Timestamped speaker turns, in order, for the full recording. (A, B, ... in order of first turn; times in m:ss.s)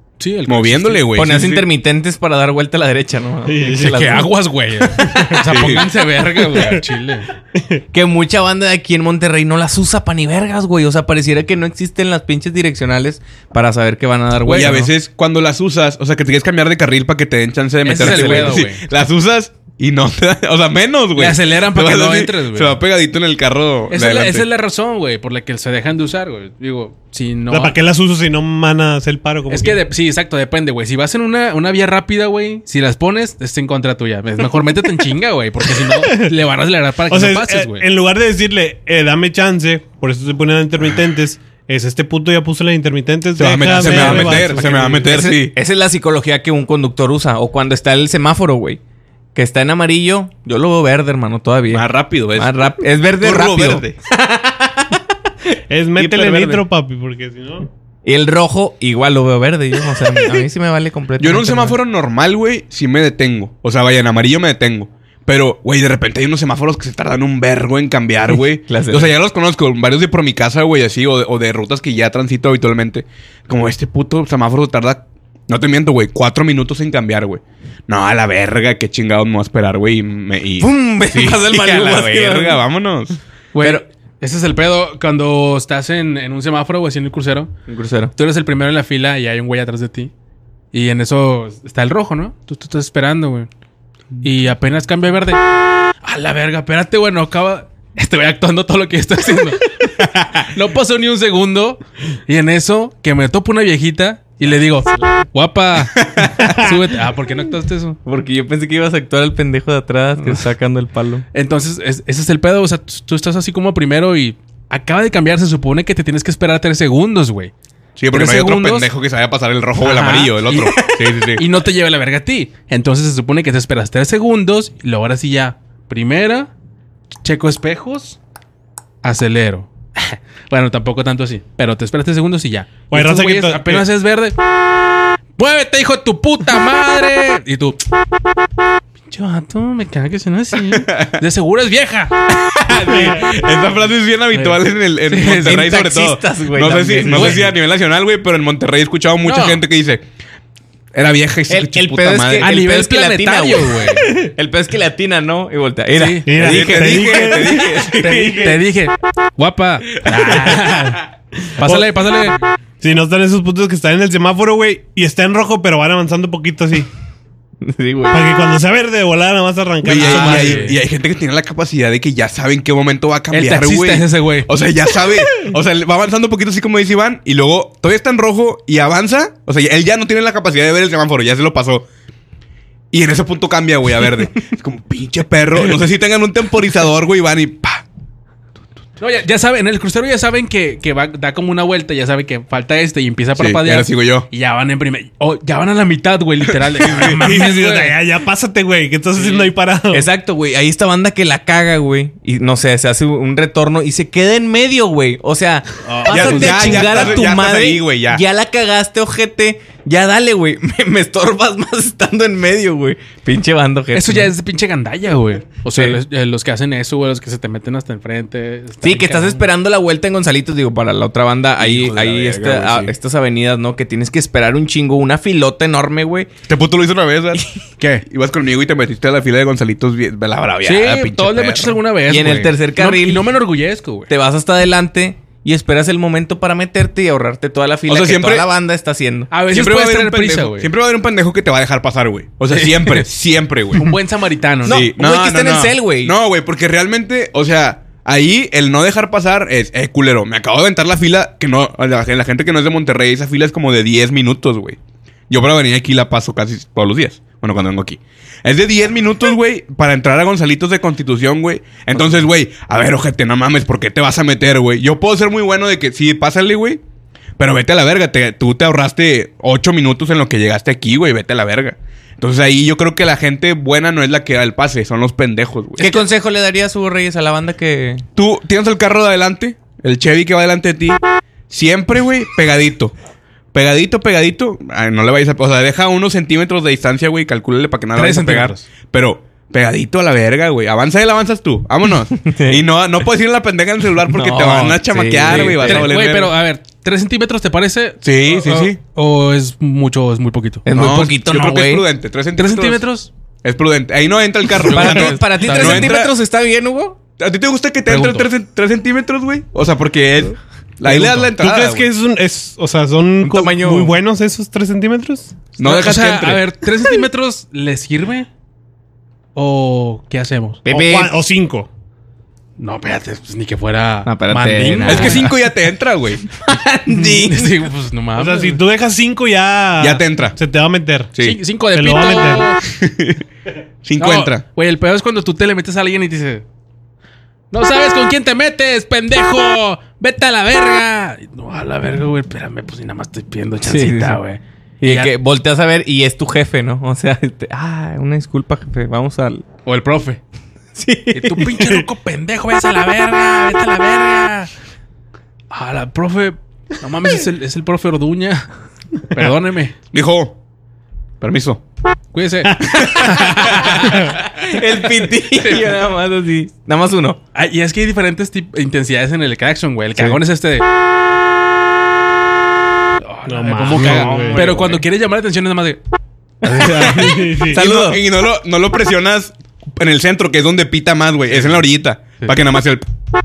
0:00.2-0:01.3 A
0:00.5-0:01.6 B
0:01.1-0:04.3 C
0:03.4-0:04.2 D
0:03.8-0:07.3 A
0:05.4-0:05.9 B
0:07.5-0:07.8 D
0:07.9-0:14.9 C
0:14.4-0:14.7 A
0:14.5-0:24.5 B
0:17.8-0:18.8 A
0:18.0-0:18.7 C
0:21.2-0:22.8 A
0:23.9-0:27.8 A
0:27.5-0:29.8 D
0:29.5-0:37.8 A
0:35.8-0:36.3 D
0:37.1-0:45.1 D
0:43.4-0:45.5 B
0:43.8-0:48.8 C
0:44.1-0:44.4 A
0:49.3-0:55.0 C
0:51.7-0:53.9 B
0:55.7-0:57.7 D
0:56.0-0:56.6 C
0:58.0-1:01.8 C
1:01.2-1:23.2 B
1:08.3-1:09.1 C
1:20.6-1:22.6 C
1:23.5-1:27.5 A
1:27.7-1:28.1 C
1:28.2-1:30.1 A
1:30.7-1:33.5 A
1:34.2-1:35.4 A
1:36.0-1:48.0 A
1:48.0-1:51.2 C
1:51.3-1:57.5 A
1:58.0-2:01.5 B
1:58.1-1:58.9 A
1:59.8-2:06.5 A
2:07.2-2:08.2 A
2:09.0-2:14.4 A
2:12.9-2:13.8 D
2:15.4-2:17.8 A
2:19.1-2:23.1 A
2:20.7-2:21.2 B
2:22.6-2:30.0 B
2:22.7-2:23.2 C
2:24.3-2:25.6 A
2:25.3-2:27.5 C
2:27.1-2:27.5 A
2:29.2-2:29.6 A
2:30.9-2:32.5 B
2:31.5-2:38.5 C
2:32.4-2:34.1 A
2:35.9-2:36.3 A
2:36.2-2:38.6 D
2:36.4-2:38.0 B
2:38.0-2:41.0 A
2:40.5-2:41.0 D
2:41.6-2:41.9 D
2:41.6-2:42.4 A
2:42.8-2:46.9 D
2:47.6-2:48.4 C
2:48.1-2:50.7 D
2:49.8-3:01.9 B
2:50.0-2:50.8 A
2:53.3-2:54.5 A
3:02.9-3:07.8 B
3:09.0-3:18.0 A
3:13.4-3:14.3 B
3:16.8-3:17.2 B
3:17.0-3:20.1 D
3:19.1-3:19.5 A
3:19.9-3:34.3 C
3:25.9-3:27.2 A
3:26.1-3:28.2 B
3:33.9-3:39.4 A
3:38.8-3:46.3 C
3:41.6-3:42.9 B
3:46.5-3:47.5 B
3:47.8-3:48.0 A
3:48.0-3:51.8 B
3:50.6-3:54.1 A
3:52.1-3:53.3 C
3:54.1-3:59.3 C
3:57.9-3:58.5 B
3:59.3-4:00.7 A
3:59.5-4:03.9 B
4:02.5-4:03.1 A
4:03.7-4:04.8 A
4:04.6-4:06.1 C
4:04.6-4:14.8 B
4:15.3-4:26.8 B
4:27.4-4:36.0 B
4:35.8-4:38.0 C
4:38.2-4:42.9 B
4:43.5-4:56.3 B
4:47.9-4:48.6 A
4:52.2-4:52.6 C
4:54.0-4:55.9 C
4:55.3-5:00.7 A
4:58.0-4:58.8 B
5:00.6-5:01.8 C
5:00.7-5:02.8 B
5:02.4-5:03.1 A
5:03.4-5:06.1 B
5:04.6-5:05.9 A
5:04.6-5:07.0 C
5:07.2-5:11.9 B
5:07.8-5:08.3 A
5:10.8-5:11.3 C
5:11.3-5:15.4 D
5:13.2-5:13.9 C
5:15.6-5:16.4 B
5:15.6-5:18.3 A
5:19.3-5:20.6 A
5:20.6-5:21.1 C
5:20.7-5:21.7 D
5:22.6-5:25.3 A
5:24.0-5:25.4 C
5:24.8-5:26.2 B
5:26.2-5:27.6 C
5:26.9-5:28.6 A
5:28.2-5:31.1 D
5:29.8-5:30.4 B
5:31.1-5:31.4 B
5:31.2-5:32.6 A
5:31.7-5:32.5 D
5:32.6-5:33.2 B
5:33.8-5:34.4 B
5:34.0-5:36.4 A
5:37.5-5:45.1 A
5:43.6-5:44.2 C
5:44.8-5:49.4 C
5:49.6-5:50.2 A
5:50.7-5:51.7 C
5:51.1-5:54.5 A
5:55.5-5:58.5 A
5:59.0-5:59.7 A
5:59.9-6:00.4 B
6:01.2-6:01.6 B
6:02.1-6:04.2 A
6:02.6-6:03.3 B
6:03.4-6:07.2 C
6:05.4-6:05.6 A
6:07.3-6:10.6 A
6:13.0-6:15.8 A
6:13.2-6:14.4 D
6:13.7-6:14.8 C
6:16.4-6:17.2 A
6:16.4-6:18.0 C
6:16.5-6:17.6 D
6:17.4-6:22.8 B